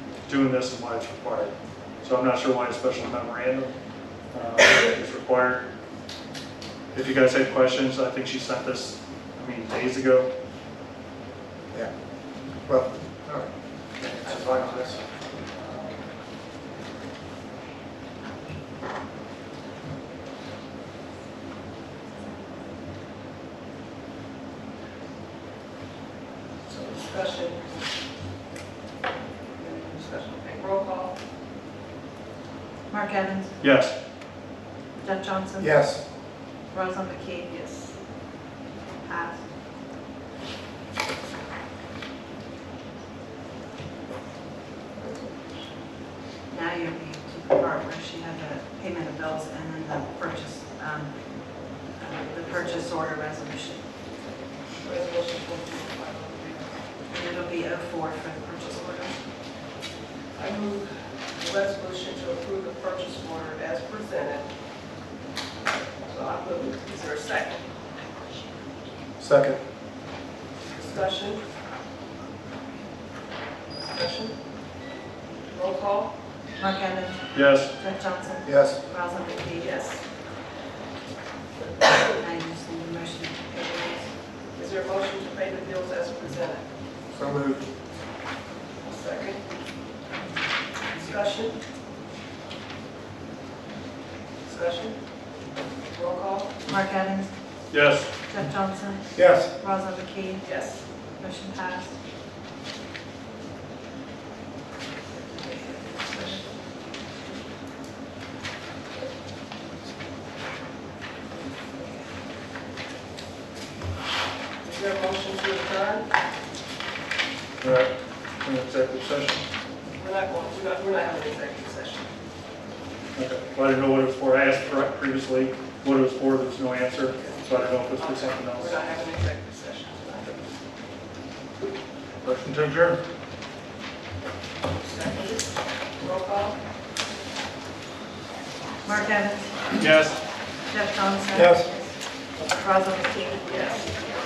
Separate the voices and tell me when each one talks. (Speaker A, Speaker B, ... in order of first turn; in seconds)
Speaker A: 0.3-3.8, 4.3-5.7, 6.9-10.3, 14.0-14.3, 33.6-33.9, 77.3-77.7, 97.7-98.1, 117.6-119.4, 123.1-128.8, 132.2-133.0, 139.7-140.2
Speaker B: 12.6-13.5, 14.0-14.9, 35.6-36.0, 69.2-69.6, 78.5-78.8, 87.1-87.6, 99.2-99.5, 141.3-141.7
Speaker C: 14.2-15.0, 15.5-15.9, 26.7-27.8, 29.6-31.1, 37.5-37.9, 45.0-45.6, 52.2-52.9, 54.8-56.8, 60.3-64.5, 66.0-67.6, 70.8-71.4, 73.8-74.4, 75.5-76.1, 79.6-80.0, 84.5-86.7, 88.8-89.4, 91.0-91.6, 94.5-95.0, 95.9-96.7, 100.4-100.8, 106.1-106.4, 114.6-116.1, 120.0-122.1, 127.2-130.3, 134.8-136.6, 143.5-143.9
Speaker D: 32.9-33.6, 35.0-35.7, 36.7-37.6, 39.0-39.4, 46.5-54.1, 57.1-59.2, 76.6-79.8, 82.0-84.2, 96.7-97.7, 98.3-100.6, 101.2-101.9, 106.2-106.4, 138.8-139.7, 140.7-141.8, 142.4-143.6